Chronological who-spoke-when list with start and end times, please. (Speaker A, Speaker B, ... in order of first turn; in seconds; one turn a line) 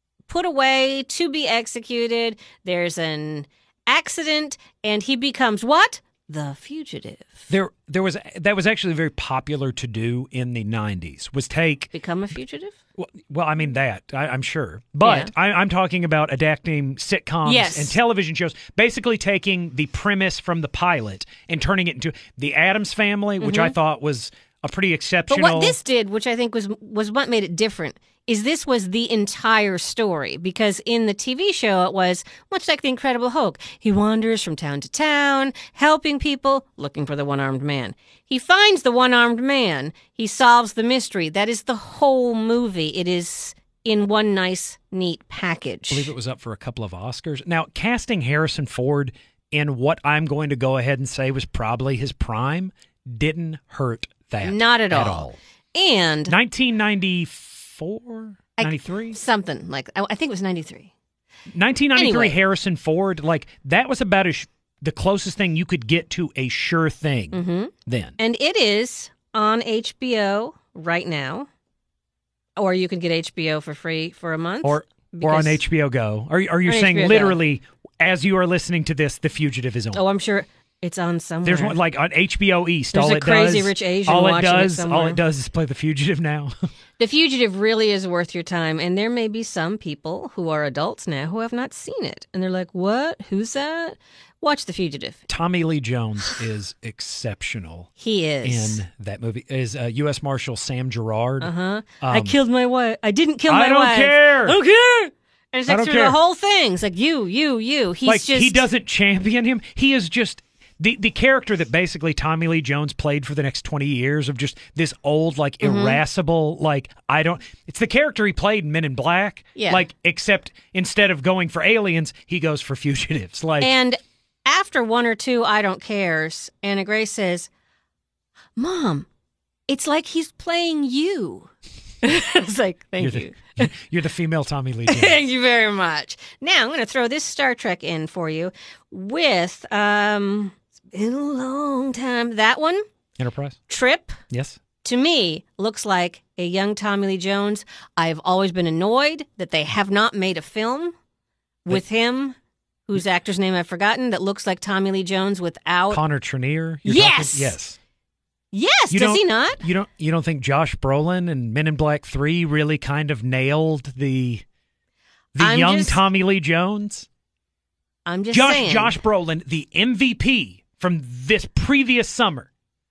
Speaker A: 0.3-7.5
Speaker B: 7.5-11.9
Speaker A: 11.9-12.8
Speaker B: 13.0-25.8
Speaker A: 15.0-15.3
Speaker A: 17.4-18.0
Speaker A: 23.4-23.7
Speaker A: 25.3-46.1
Speaker B: 45.9-55.4
Speaker A: 54.4-56.3
Speaker B: 56.3-59.2
Speaker A: 58.6-60.9
Speaker B: 61.5-68.2
Speaker A: 62.0-62.4
Speaker A: 67.3-71.5
Speaker A: 72.6-75.6
Speaker B: 74.6-80.0
Speaker A: 76.7-77.4
Speaker A: 79.9-81.8
Speaker B: 81.4-86.5
Speaker A: 82.9-85.2
Speaker A: 87.0-95.2
Speaker B: 95.3-97.9
Speaker A: 98.0-98.8
Speaker B: 98.4-102.3
Speaker A: 101.4-108.6
Speaker B: 103.5-104.6
Speaker B: 105.7-106.2
Speaker B: 108.0-123.7
Speaker A: 115.6-116.0
Speaker A: 119.5-119.8
Speaker A: 123.6-127.5
Speaker A: 128.6-129.1
Speaker A: 129.7-133.7
Speaker B: 133.0-135.2
Speaker A: 134.9-142.8
Speaker B: 143.2-143.6
Speaker A: 143.7-144.2
Speaker B: 144.3-144.6
Speaker A: 144.8-150.9
Speaker A: 151.6-152.3
Speaker A: 152.9-156.0
Speaker B: 155.9-157.8
Speaker A: 156.8-157.6
Speaker A: 158.5-159.6
Speaker B: 158.9-164.4
Speaker B: 165.3-167.1
Speaker A: 165.4-166.0
Speaker A: 168.1-169.0
Speaker B: 168.3-172.5